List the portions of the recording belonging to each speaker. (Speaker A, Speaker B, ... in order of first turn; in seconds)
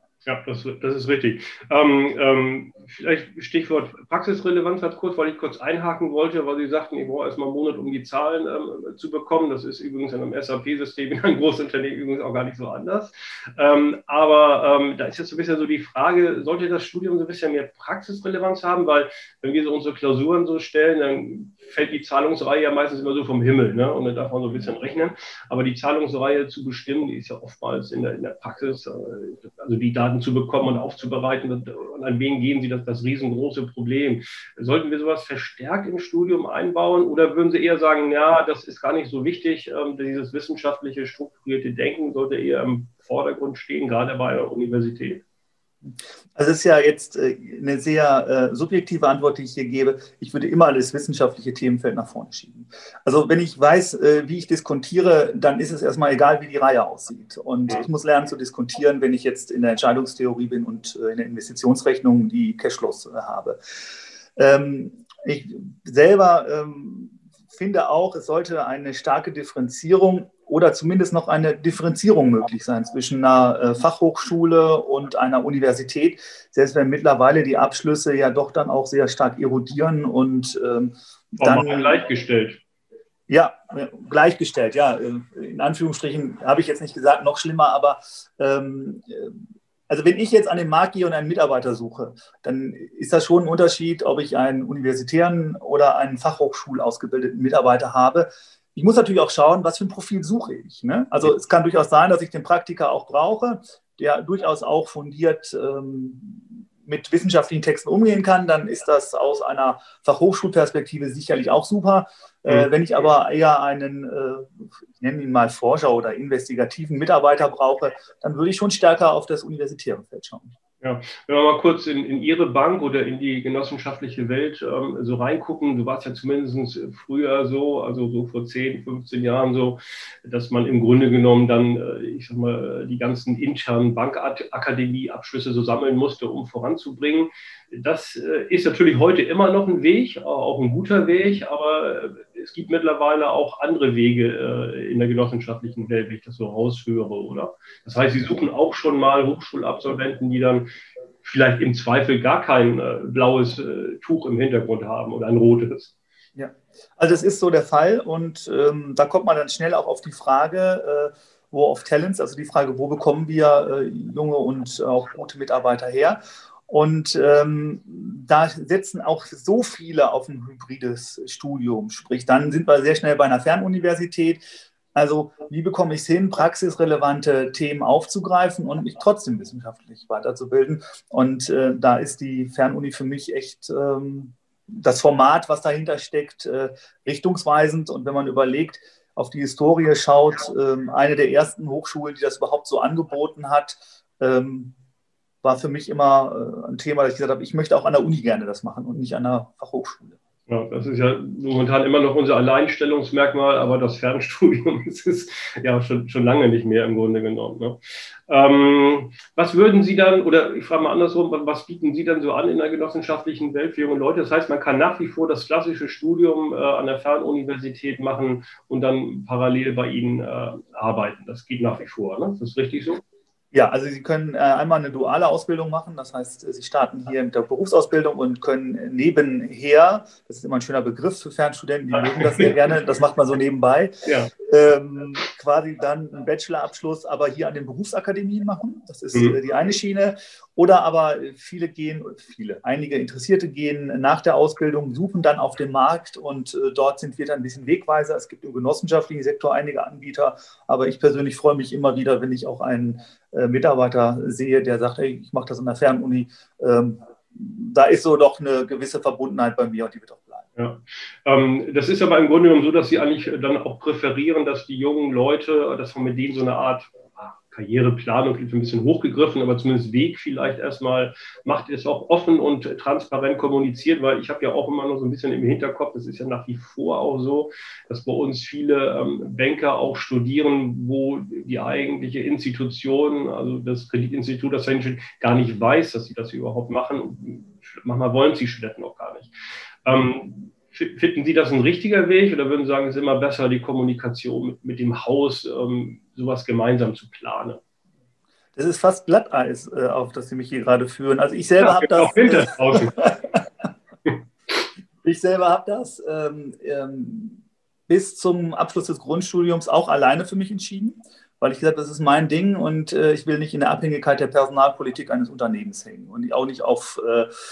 Speaker A: 0.2-45.2, 81.4-82.6, 120.8-150.7, 151.2-155.9, 200.5-223.0, 231.9-232.6, 234.1-234.3, 260.6-289.3, 289.8-297.6, 301.6-302.9
Speaker B: 46.4-63.6, 64.4-82.0, 83.3-89.3, 89.9-120.5, 156.4-174.4, 174.9-194.7, 195.4-200.2, 223.5-233.9, 234.5-260.4, 298.6-303.2, 305.0-317.3